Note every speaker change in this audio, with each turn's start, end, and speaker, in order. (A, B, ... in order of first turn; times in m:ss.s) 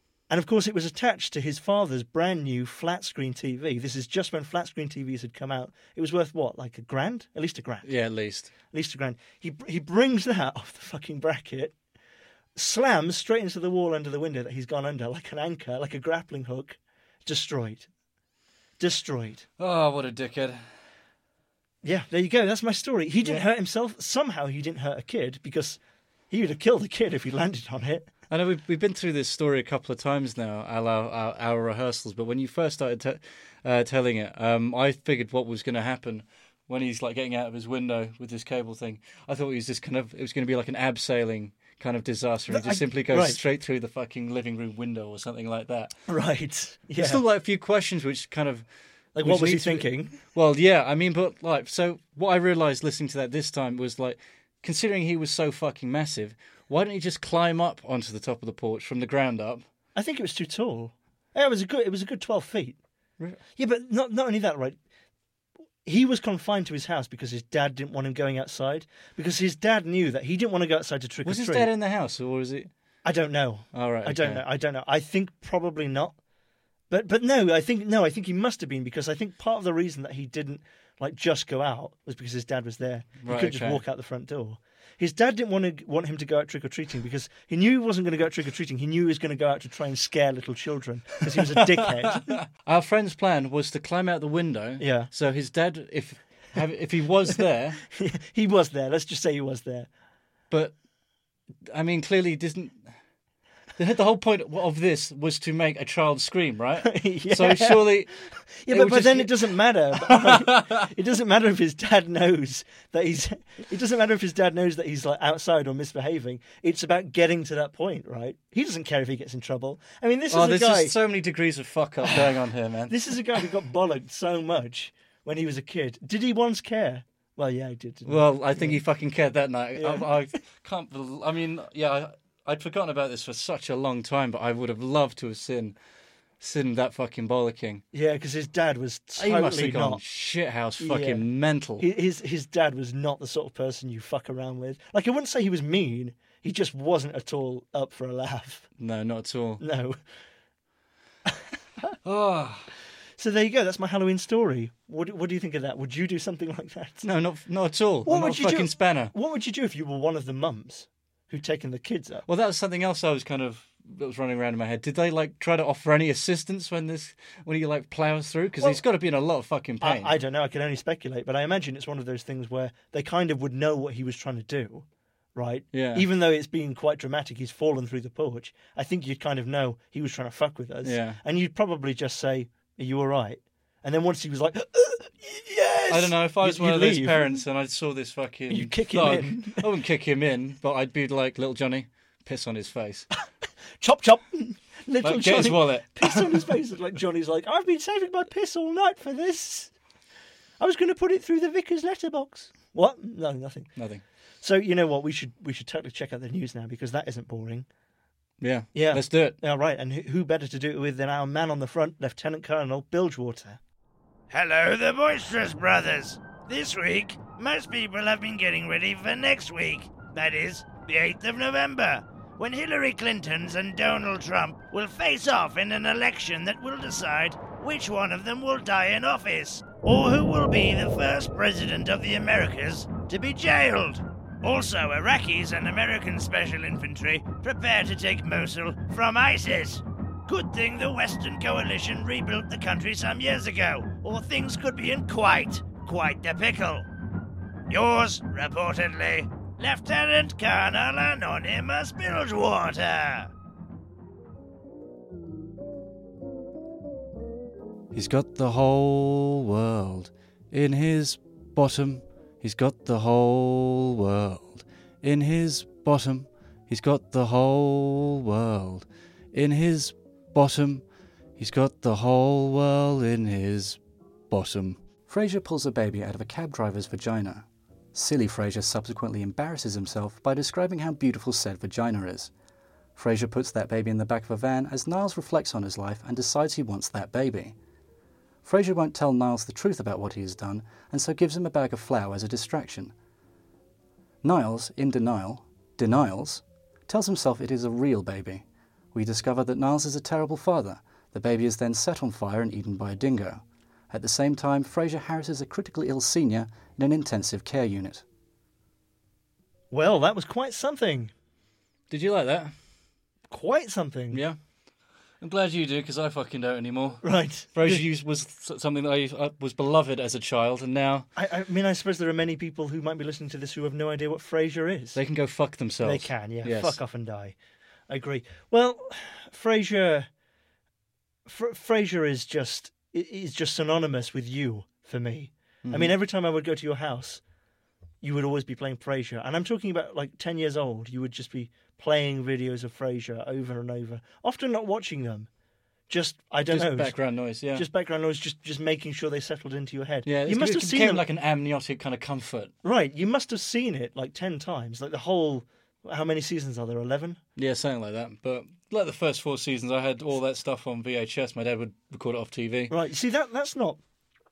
0:00.3-0:07.9 A
0:07.8-0:08.5 B
0:08.7-0:11.8 A
0:12.6-0:17.9 A
0:18.8-0:19.5 A
0:19.6-0:20.6 B
0:21.8-0:28.1 A
0:28.3-0:46.0 B
0:42.5-0:43.4 A
0:46.1-0:47.2 A
0:47.0-0:48.7 B
0:49.2-0:50.2 A
0:49.2-0:59.6 B
1:00.0-1:02.8 A
1:03.6-1:04.8 A
1:05.8-1:11.7 A
1:11.2-1:12.7 B
1:13.0-1:16.2 A
1:13.7-1:14.4 B
1:16.9-1:32.4 A
1:23.2-1:23.8 B
1:31.3-1:37.8 B
1:34.8-1:35.1 A
1:37.9-1:39.9 A
1:41.7-1:42.8 B
1:43.8-1:48.1 B
1:46.8-1:48.0 A
1:48.6-2:01.0 A
1:48.7-1:50.9 B
2:00.3-2:03.4 B
2:02.9-2:08.8 A
2:08.1-2:15.8 B
2:09.8-2:10.1 A
2:16.4-2:17.8 B
2:17.9-2:20.0 A
2:19.2-2:21.9 B
2:20.8-2:21.2 A
2:21.8-2:28.7 A
2:28.8-2:29.6 B
2:29.6-2:30.0 A
2:32.0-2:32.7 B
2:33.2-2:37.0 A
2:37.0-2:39.1 B
2:38.0-2:42.2 A
2:42.3-2:50.1 B
2:49.8-3:07.4 A
2:55.7-2:56.0 B
3:00.8-3:01.2 B
3:05.9-3:13.1 B
3:08.5-3:09.7 A
3:13.8-3:19.7 A
3:15.0-3:16.5 B
3:20.6-3:23.7 A
3:23.8-3:24.0 B
3:24.4-3:27.7 A
3:28.4-3:29.4 B
3:28.7-3:33.6 A
3:34.3-4:06.9 C
4:07.7-4:13.3 C
4:17.9-4:30.8 B
4:31.4-4:33.8 B
4:34.3-4:42.3 B
4:43.0-4:47.6 B
4:48.4-4:52.9 B
4:54.2-5:08.0 B
5:09.7-5:11.1 A
5:11.9-5:12.5 B
5:13.3-5:14.2 A
5:14.1-5:14.4 B
5:15.2-5:21.1 B
5:17.0-5:17.8 A
5:21.2-5:25.0 A
5:25.0-5:26.8 B
5:25.8-5:27.4 A
5:27.9-5:30.1 A
5:31.3-5:37.2 A
5:35.6-5:35.9 B
5:38.0-5:45.3 A
5:45.9-5:47.0 A
5:46.5-5:47.7 B
5:47.5-5:51.0 A
5:50.0-5:52.5 B
5:52.6-5:57.2 A
5:57.4-6:02.7 B
6:02.7-6:03.8 A